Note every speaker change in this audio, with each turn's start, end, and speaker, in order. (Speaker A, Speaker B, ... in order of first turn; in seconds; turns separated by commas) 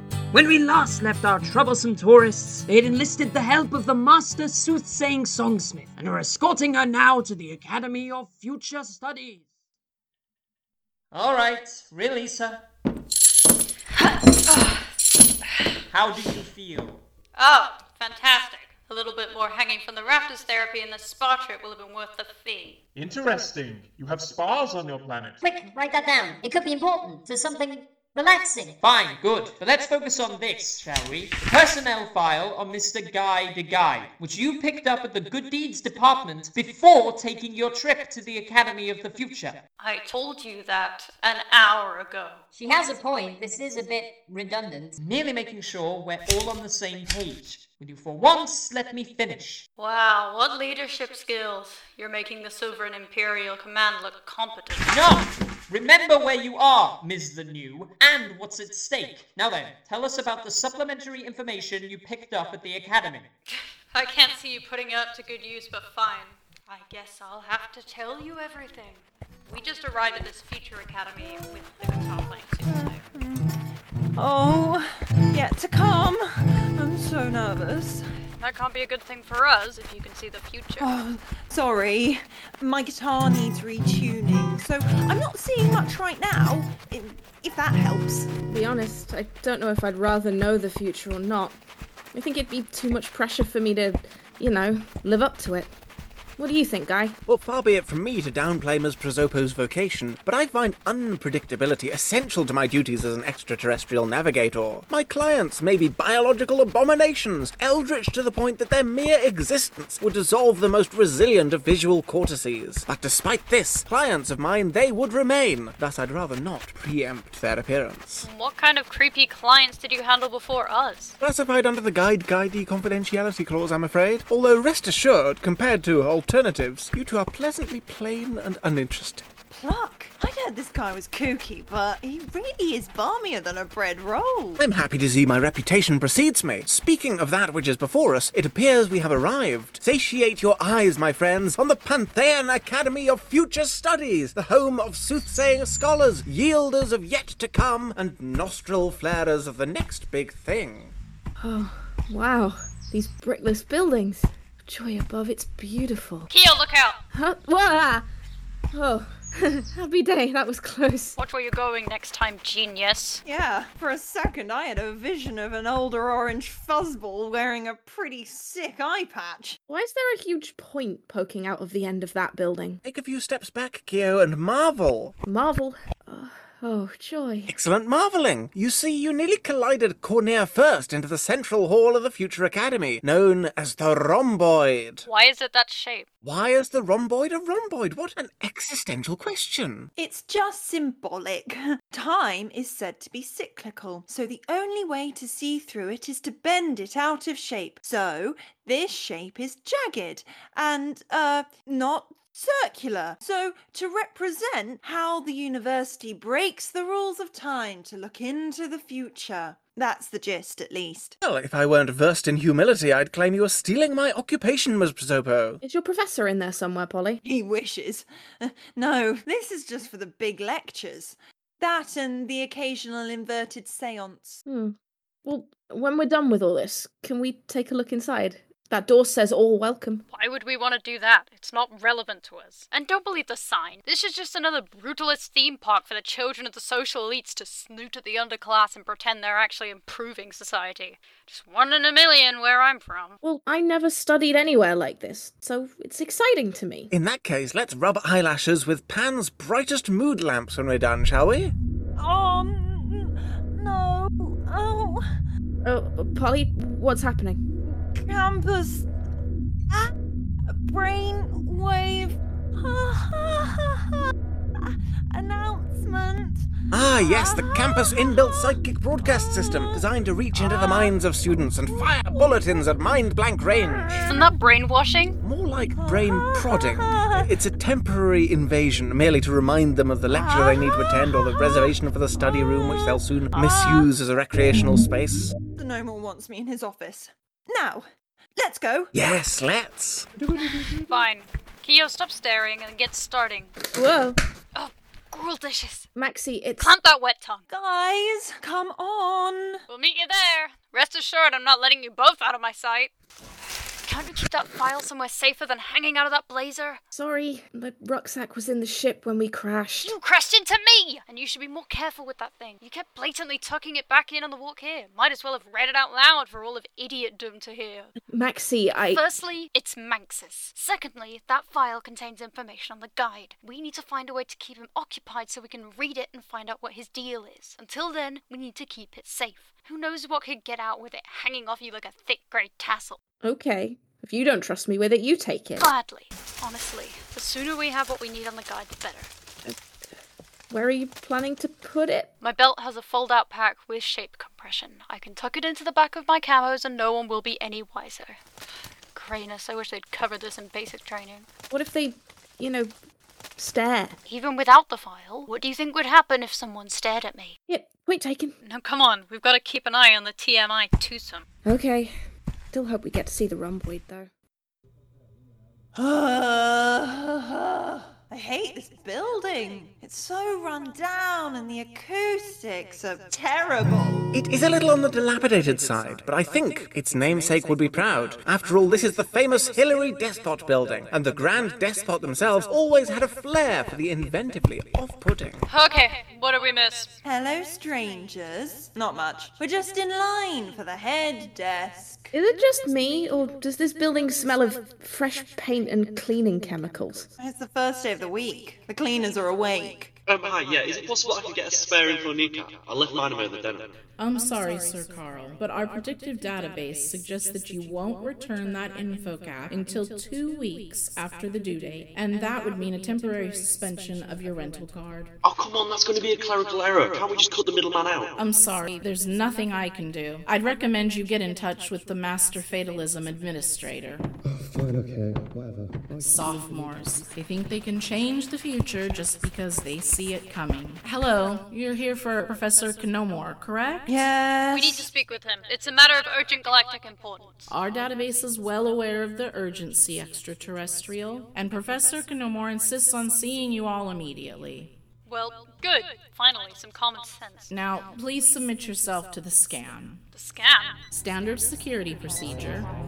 Speaker A: 0.3-9.5, Speaker B: 11.1-12.7, Speaker B: 15.9-17.0, Speaker C: 17.4-22.8, Speaker D: 23.0-25.4, Speaker E: 25.4-28.8, Speaker B: 28.8-39.6, Speaker C: 39.8-42.4, Speaker E: 42.5-45.0, Speaker B: 45.0-49.7, Speaker C: 49.8-54.9, Speaker B: 54.9-63.3, Speaker C: 63.5-73.0, Speaker F: 72.6-73.5, Speaker F: 74.2-78.0, Speaker C: 78.4-80.9, Speaker F: 80.8-88.3, Speaker G: 88.5-91.6, Speaker G: 92.1-95.7, Speaker G: 96.4-97.2, Speaker H: 97.3-118.3, Speaker C: 118.2-121.2, Speaker H: 121.2-129.3, Speaker F: 129.5-134.6, Speaker H: 134.6-150.9, Speaker G: 151.4-156.3, Speaker C: 156.3-157.0, Speaker G: 157.1-158.1, Speaker G: 158.7-161.2, Speaker C: 161.2-163.2, Speaker F: 163.2-169.6, Speaker G: 169.7-172.8, Speaker H: 172.8-175.2, Speaker G: 175.2-177.5, Speaker H: 177.5-185.1, Speaker C: 185.1-186.1, Speaker H: 186.2-189.9, Speaker F: 190.0-211.2, Speaker H: 211.2-215.6, Speaker G: 215.6-217.2, Speaker F: 217.2-224.4, Speaker G: 224.5-230.1, Speaker C: 230.1-243.2, Speaker G: 243.2-246.9, Speaker H: 246.9-251.6, Speaker F: 252.0-255.2, Speaker G: 255.6-257.4, Speaker F: 257.9-258.9, Speaker F: 260.5-269.8, Speaker H: 266.7-274.1, Speaker F: 270.3-270.9, Speaker F: 271.7-272.8, Speaker F: 273.5-274.3, Speaker C: 274.1-275.2, Speaker H: 275.2-285.3, Speaker F: 275.8-277.3, Speaker F: 280.1-283.9, Speaker F: 285.6-288.9, Speaker H: 288.9-290.1, Speaker C: 290.9-293.5, Speaker G: 293.7-294.2, Speaker C: 294.5-295.9, Speaker G: 295.9-296.7, Speaker C: 296.6-297.4, Speaker F: 297.5-299.6, Speaker C: 299.7-302.9, Speaker C: 303.9-306.8, Speaker G: 306.9-310.0, Speaker C: 309.8-317.9, Speaker G: 318.1-319.1, Speaker C: 318.9-333.0, Speaker G: 333.2-335.7, Speaker C: 335.6-339.1, Speaker G: 340.5-342.1, Speaker C: 342.2-348.2, Speaker C: 348.9-351.3, Speaker G: 351.5-352.7, Speaker G: 353.4-354.0, Speaker C: 354.1-357.4, Speaker G: 357.5-358.3, Speaker C: 358.4-361.3, Speaker G: 361.4-361.9, Speaker G: 362.5-364.1, Speaker F: 365.8-374.1, Speaker H: 374.1-385.4, Speaker C: 385.5-386.9, Speaker F: 387.0-392.1, Speaker G: 392.1-397.1, Speaker F: 397.2-399.9, Speaker I: 400.1-403.7, Speaker J: 404.0-415.1, Speaker I: 415.2-418.2, Speaker J: 418.2-424.1, Speaker K: 424.3-426.7, Speaker J: 426.0-433.9, Speaker F: 433.9-434.9, Speaker C: 434.5-437.5, Speaker J: 437.5-444.7, Speaker C: 445.1-447.5, Speaker J: 447.5-450.0, Speaker C: 450.1-450.8, Speaker J: 450.9-452.7